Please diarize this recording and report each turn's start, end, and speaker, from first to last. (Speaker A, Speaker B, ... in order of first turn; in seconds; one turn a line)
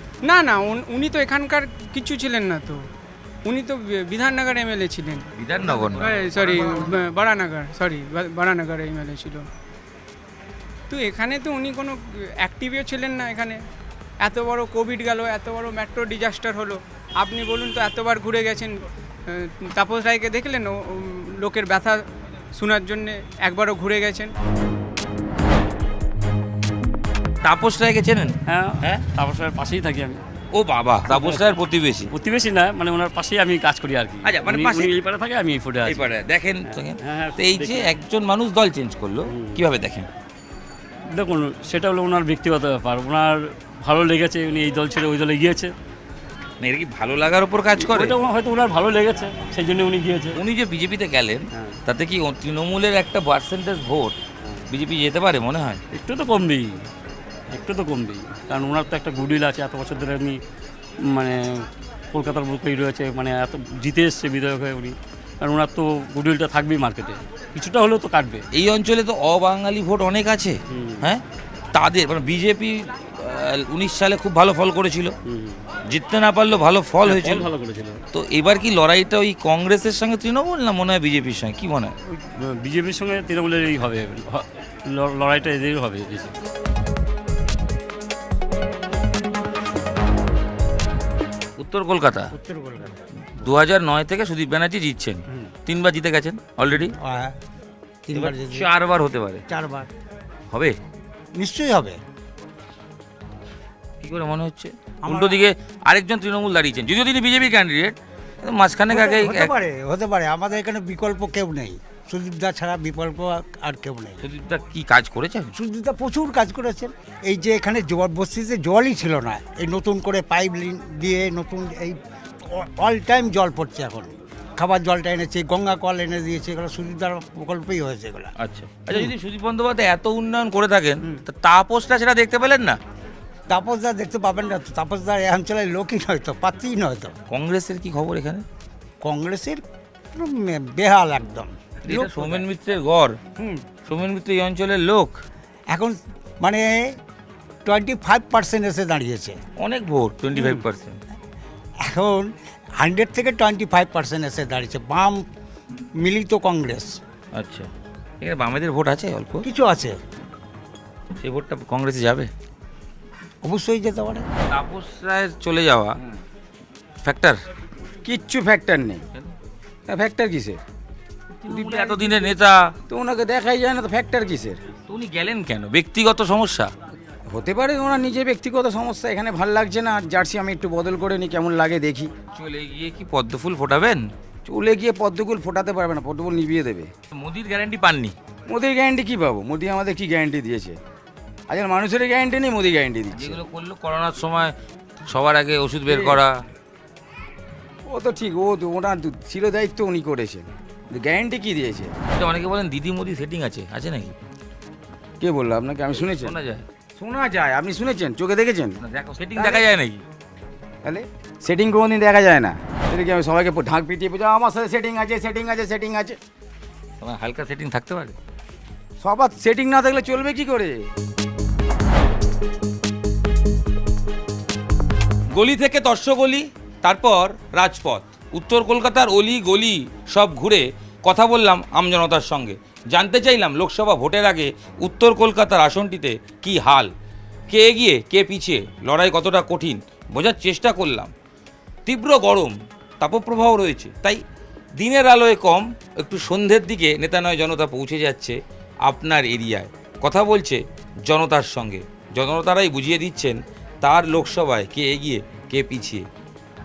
Speaker A: 0.2-2.8
Speaker A: 3.5-9.4
Speaker B: 5.3-6.2
Speaker A: 10.9-13.6
Speaker A: 14.2-18.7
Speaker A: 19.3-22.0
Speaker A: 22.5-24.3
Speaker B: 27.4-29.0
Speaker C: 28.5-30.2
Speaker B: 30.5-32.1
Speaker C: 31.1-31.4
Speaker C: 32.1-36.1
Speaker B: 34.2-34.9
Speaker B: 35.9-40.1
Speaker C: 36.6-37.9
Speaker C: 39.3-39.6
Speaker C: 41.1-45.7
Speaker B: 46.6-48.2
Speaker C: 47.7-50.4
Speaker B: 50.4-55.8
Speaker C: 55.9-56.9
Speaker C: 57.5-60.4
Speaker C: 61.1-68.4
Speaker B: 68.5-71.2
Speaker C: 70.7-71.1
Speaker B: 71.7-75.1
Speaker C: 75.2-75.6
Speaker B: 75.9-77.5
Speaker C: 77.0-78.0
Speaker B: 78.1-81.9
Speaker C: 82.1-86.3
Speaker B: 91.6-92.3
Speaker D: 92.3-93.0
Speaker B: 93.3-96.9
Speaker D: 97.0-97.4
Speaker D: 98.1-98.7
Speaker B: 98.1-99.4
Speaker D: 99.5-99.9
Speaker D: 101.4-102.0
Speaker B: 104.0-109.5
Speaker D: 105.0-105.5
Speaker D: 108.9-114.2
Speaker B: 114.2-115.5
Speaker D: 115.5-128.3
Speaker B: 128.4-132.8
Speaker D: 133.5-137.1
Speaker B: 137.3-138.4
Speaker D: 139.0-139.6
Speaker D: 140.1-142.4
Speaker B: 141.8-143.2
Speaker D: 143.4-143.6
Speaker B: 143.8-145.2
Speaker D: 145.7-147.0
Speaker D: 147.6-149.4
Speaker B: 149.6-151.0
Speaker D: 150.3-150.6
Speaker D: 151.8-155.2
Speaker D: 156.0-157.0
Speaker B: 157.3-157.7
Speaker B: 158.2-159.4
Speaker D: 159.4-160.0
Speaker B: 161.2-162.3
Speaker D: 163.4-164.3
Speaker B: 164.5-166.0
Speaker B: 167.0-167.4
Speaker E: 168.0-169.0
Speaker E: 169.9-170.6
Speaker B: 171.4-172.7
Speaker E: 171.5-172.0
Speaker E: 172.9-174.6
Speaker B: 174.9-176.7
Speaker E: 177.3-182.1
Speaker B: 182.3-184.0
Speaker E: 184.4-186.9
Speaker B: 187.1-188.1
Speaker E: 188.5-190.8
Speaker E: 191.5-193.4
Speaker B: 193.1-194.6
Speaker B: 195.1-196.4
Speaker E: 195.9-196.2
Speaker E: 197.8-201.9
Speaker B: 202.1-204.2
Speaker E: 205.2-206.3
Speaker B: 205.9-206.6
Speaker E: 206.9-208.8
Speaker B: 208.8-210.0
Speaker E: 209.3-209.6
Speaker E: 210.8-216.2
Speaker B: 217.0-218.1
Speaker E: 219.0-220.9
Speaker B: 225.3-236.9
Speaker B: 237.5-241.1
Speaker B: 241.8-244.2
Speaker B: 244.8-256.1